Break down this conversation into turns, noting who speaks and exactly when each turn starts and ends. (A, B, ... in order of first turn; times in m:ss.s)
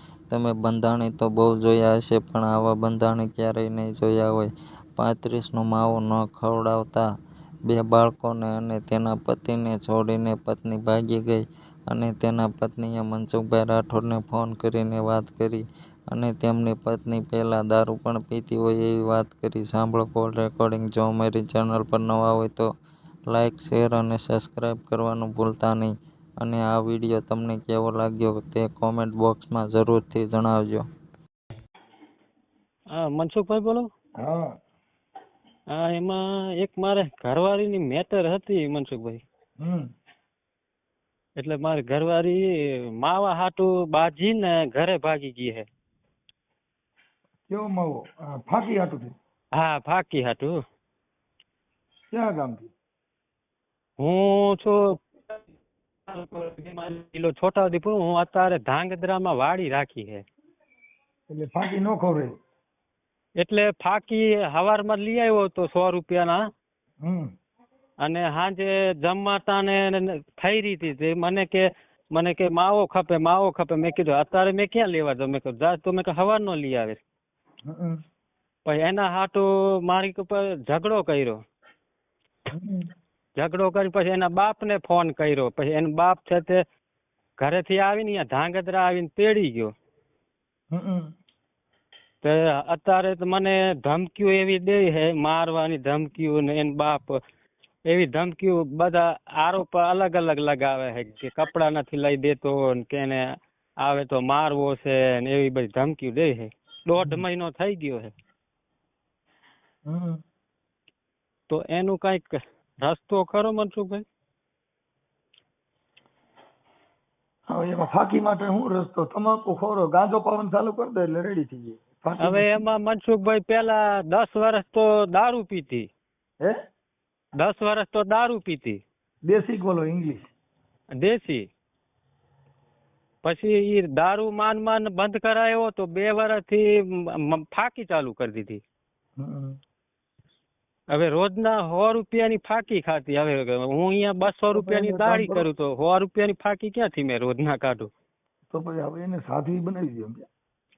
0:00.3-0:07.0 A
0:07.7-0:22.7 A
0:23.3-0:30.8 A
0:32.9-0:33.9 B
0:34.2-0:34.5 C
0:35.7-0:39.2 B
0:39.6-0:39.9 C
0:41.4-0:45.7 B
0:47.5-0:49.1 C
0:49.5-0:50.6 B
0:52.1-0:52.7 C
0:54.0-0:54.9 B
0:56.1-1:00.2 B
1:01.3-1:02.3 C
1:03.4-1:06.4 B
1:07.0-1:07.3 C
1:08.0-1:17.0 B
1:17.6-1:18.0 C
1:18.6-1:21.4 B
1:22.5-1:22.8 C
1:23.4-1:26.6 B
1:27.4-1:29.7 B
1:30.7-1:31.1 C
1:32.2-1:37.2 B
1:37.9-1:48.1 B
1:49.9-1:50.2 C
1:51.5-1:54.0 B
1:57.5-2:02.5 C
2:02.2-2:05.9 B
2:07.4-2:08.8 B
2:09.2-2:10.2 C
2:11.0-2:11.5 B
2:13.2-2:18.6 B
2:19.2-2:19.6 C
2:20.9-2:27.9 B
2:24.5-2:25.5 C
2:28.5-2:30.3 C